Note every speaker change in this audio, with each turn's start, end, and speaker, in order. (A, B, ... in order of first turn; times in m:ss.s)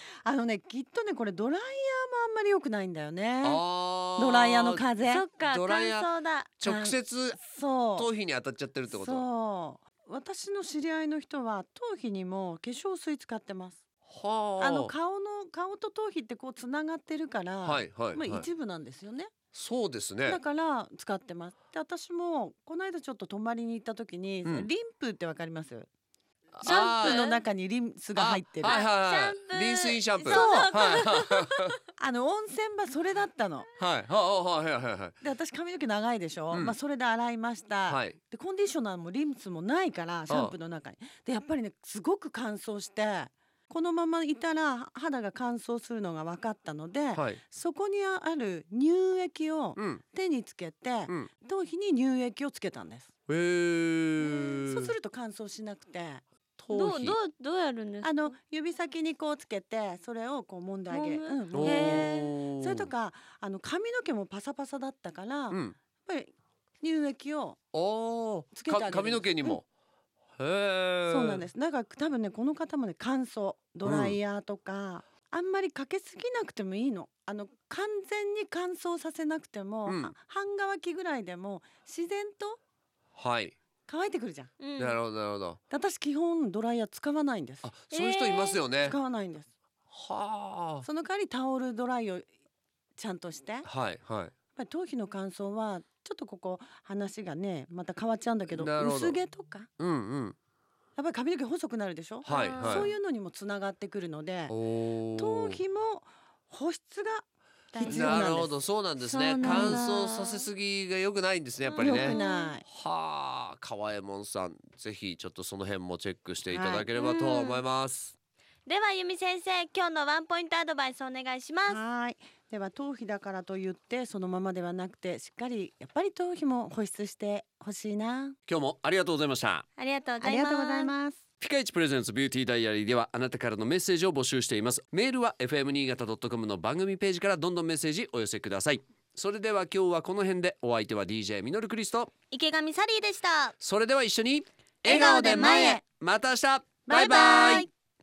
0:00.2-0:03.6 A
0:03.4-0:04.8 B
0:04.2-0:05.2 A
0:05.0-0:06.5 C
0:05.4-0:06.1 B
0:06.6-0:07.4 B
0:06.6-0:08.1 A
0:07.9-0:09.2 B
0:08.9-0:13.8 A
0:14.1-0:14.9 B
0:14.6-0:19.3 A
0:17.6-0:18.4 B
0:19.5-0:20.4 B
0:20.2-0:25.9 A
0:26.6-0:27.4 B
0:26.6-0:28.8 A
0:28.2-0:31.7 B
0:28.6-0:31.1 C
0:30.2-0:33.7 A
0:33.8-0:35.2 B
0:35.2-0:53.1 A
0:37.9-0:38.2 B
0:40.3-0:40.5 B
0:47.1-0:47.4 B
0:49.8-0:50.0 B
0:53.3-0:54.9 B
0:54.2-0:56.2 A
0:56.6-0:57.2 B
0:56.7-0:58.3 C
0:58.0-1:07.6 A
1:00.9-1:02.3 C
1:01.5-1:02.9 B
1:05.5-1:05.8 B
1:07.7-1:09.6 B
1:08.5-1:09.6 A
1:10.4-1:11.4 B
1:11.1-1:22.6 A
1:13.8-1:14.2 B
1:19.8-1:20.1 B
1:23.2-1:23.5 B
1:23.9-1:24.5 A
1:24.6-1:25.0 C
1:24.8-1:25.6 B
1:25.7-1:27.7 A
1:27.6-1:29.0 B
1:27.9-1:28.6 C
1:28.8-1:29.5 A
1:29.9-1:30.8 B
1:30.8-1:32.2 A
1:33.0-1:33.7 A
1:33.6-1:34.3 B
1:34.6-1:39.7 A
1:38.5-1:39.2 B
1:39.8-1:40.4 B
1:41.0-1:44.5 A
1:42.2-1:42.9 B
1:42.2-1:42.9 C
1:44.5-1:45.6 B
1:45.2-1:48.6 A
1:47.8-1:48.1 C
1:47.8-1:58.1 B
1:49.0-1:50.5 C
1:49.4-1:49.8 A
1:51.6-1:52.5 C
1:51.8-1:52.6 A
1:56.5-1:56.9 A
1:57.0-1:57.6 C
1:58.6-2:01.8 C
2:01.6-2:08.4 A
2:08.5-2:09.6 B
2:09.8-2:10.9 C
2:10.2-2:11.2 A
2:11.4-2:22.1 B
2:22.3-2:23.5 C
2:23.6-2:27.7 B
2:24.8-2:25.8 C
2:24.9-2:25.8 A
2:26.9-2:27.7 C
2:26.9-2:27.6 A